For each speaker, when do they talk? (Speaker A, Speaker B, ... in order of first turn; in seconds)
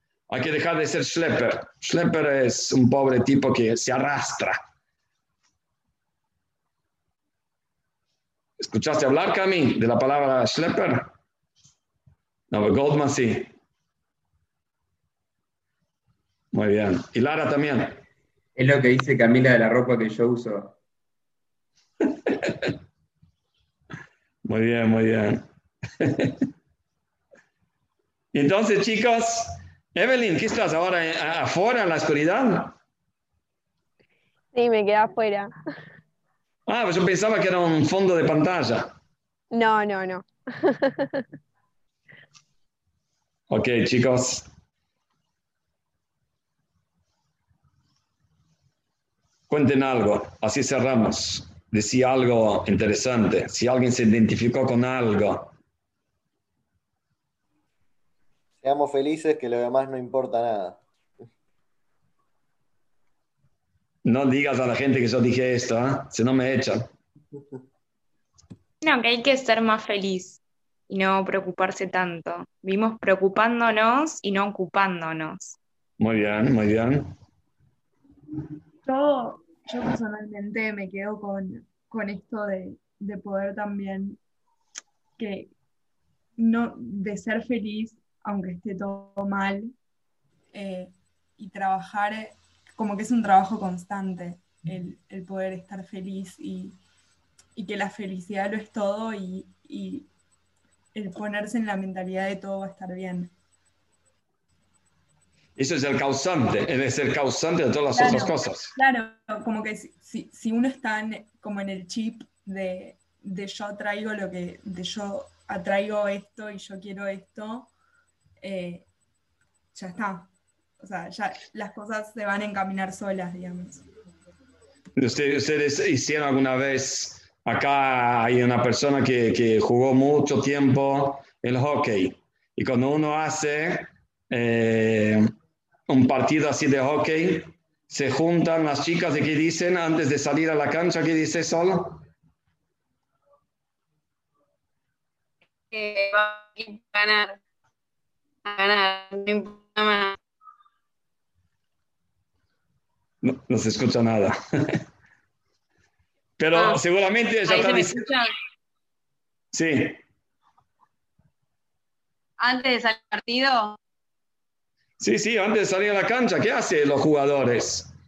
Speaker A: 0.3-4.6, 8.6-11.1, 12.5-13.5, 16.5-18.0, 24.4-25.4, 26.0-26.4, 28.3-32.8, 36.7-38.9, 43.5-44.5, 49.5-55.5, 64.0-66.9, 76.0-77.1, 105.6-108.7, 125.0-135.3, 135.9-142.0, 153.2-154.8, 156.4-158.1, 159.5-160.0, 165.0-167.9
Speaker B: 18.6-20.7
Speaker C: 34.5-35.5, 39.5-41.2
Speaker D: 58.6-60.8
Speaker E: 68.8-75.6
Speaker F: 78.8-84.2, 85.2-85.5, 86.4-89.7, 90.5-96.8, 97.5-100.1, 100.9-103.3, 107.9-117.7, 118.4-118.8, 119.7-123.8
Speaker G: 145.7-147.3, 148.4-150.1, 157.5-158.3, 162.4-163.8